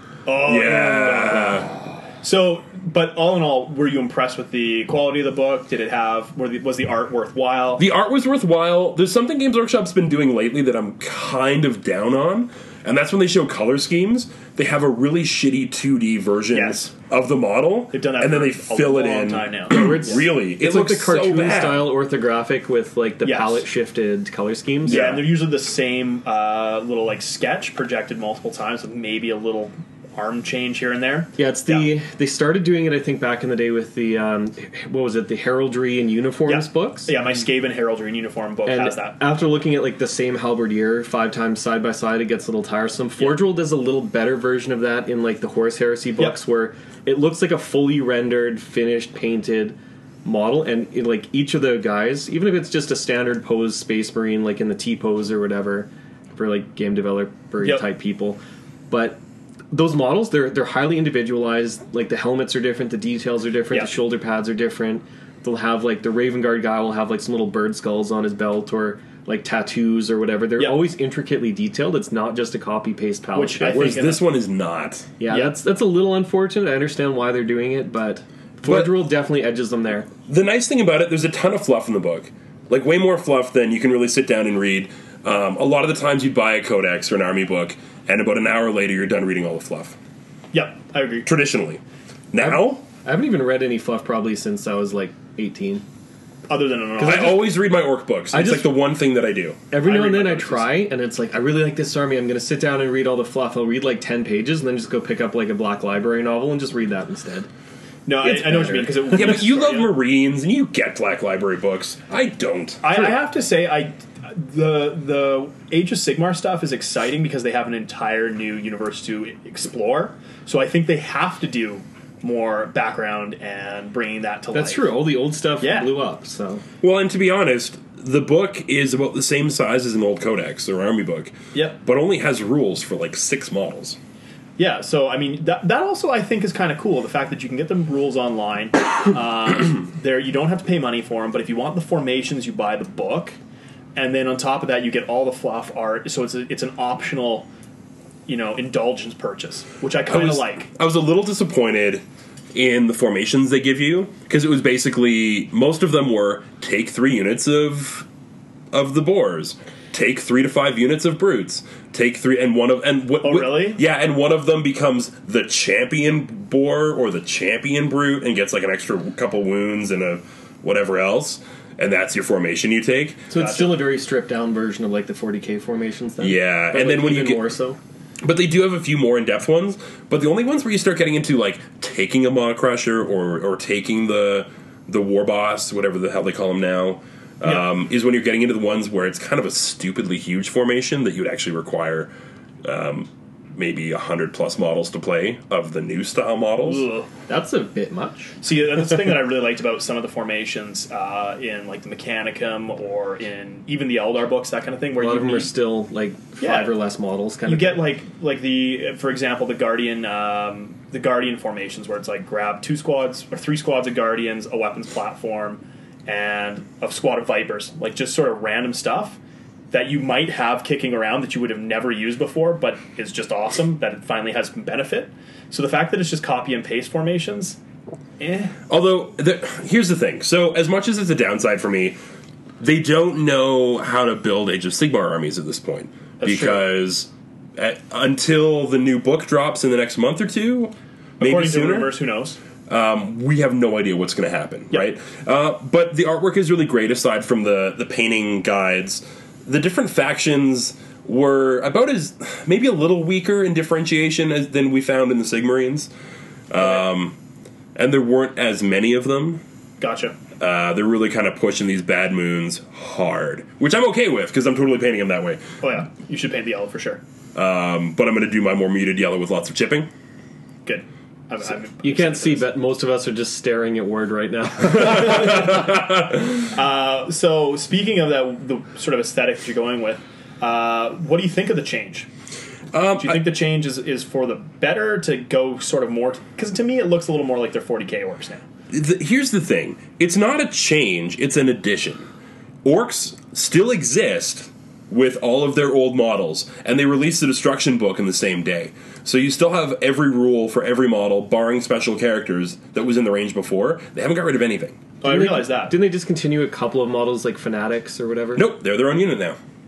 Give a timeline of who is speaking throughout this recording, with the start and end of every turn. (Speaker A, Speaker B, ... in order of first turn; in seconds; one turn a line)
Speaker A: 0.3-1.5
Speaker B: 0.4-1.8
Speaker A: 2.2-7.8
Speaker B: 7.8-21.9
Speaker A: 16.5-16.9
Speaker A: 17.9-20.2
Speaker C: 19.7-25.2
Speaker A: 23.2-23.6
Speaker A: 24.9-31.9
Speaker B: 24.9-25.3
Speaker C: 31.4-37.2
Speaker A: 36.5-39.2
Speaker C: 38.7-59.2
Speaker C: 59.7-74.0
Speaker A: 70.6-70.8
Speaker A: 73.3-74.2
Speaker B: 73.7-75.1
Speaker C: 75.2-80.1
Speaker A: 75.3-75.6
Speaker B: 78.6-79.0
Speaker B: 80.3-90.0
Speaker A: 90.5-91.3
Speaker B: 91.2-91.8
Speaker B: 92.3-92.8
Speaker C: 92.4-95.8
Speaker A: 96.5-97.5
Speaker C: 97.0-97.3
Speaker B: 97.0-99.7
Speaker C: 98.3-98.8
Speaker C: 99.7-107.5
Speaker A: 99.8-100.7
Speaker A: 108.1-109.9
Speaker C: 108.2-109.4
Speaker B: 109.1-112.9
Speaker A: 112.8-125.0
Speaker C: 124.5-126.6
Speaker A: 125.6-125.9
Speaker B: 126.8-134.0
Speaker A: 134.6-143.4
Speaker A: 144.0-147.5
Speaker A: 148.3-150.7
Speaker B: 150.1-158.1
Speaker B: 158.7-173.3
Speaker A: 163.2-163.8
Speaker C: 173.3-177.8
Speaker A: 173.3-173.8
Speaker B: 176.2-177.6
Speaker B: 178.2-192.1
Speaker B: 192.6-196.9
Speaker A: 196.6-197.1
Speaker C: 197.3-198.3
Speaker A: 198.4-205.6
Speaker C: 205.0-207.8
Speaker A: 206.4-206.7
Speaker A: 207.5-219.2
Speaker A: 219.7-227.6
Speaker A: 228.2-228.6
Speaker B: 228.7-232.0
Speaker B: 232.6-241.9
Speaker A: 236.2-236.6
Speaker A: 241.2-242.4
Speaker B: 242.7-255.9
Speaker B: 256.5-257.2
Speaker B: 257.8-259.4
Speaker A: 259.8-260.2
Speaker B: 260.4-265.4
Speaker A: 265.6-267.0
Speaker B: 267.4-269.9
Speaker A: 270.7-272.5
Speaker C: 271.8-275.5
Speaker B: 274.7-276.1
Speaker A: 276.4-282.1
Speaker B: 282.7-283.3
Speaker A: 283.0-288.4
Speaker B: 288.7-292.1
Speaker B: 292.6-304.8
Speaker A: 305.0-305.8
Speaker C: 305.0-308.5
Speaker B: 308.4-309.4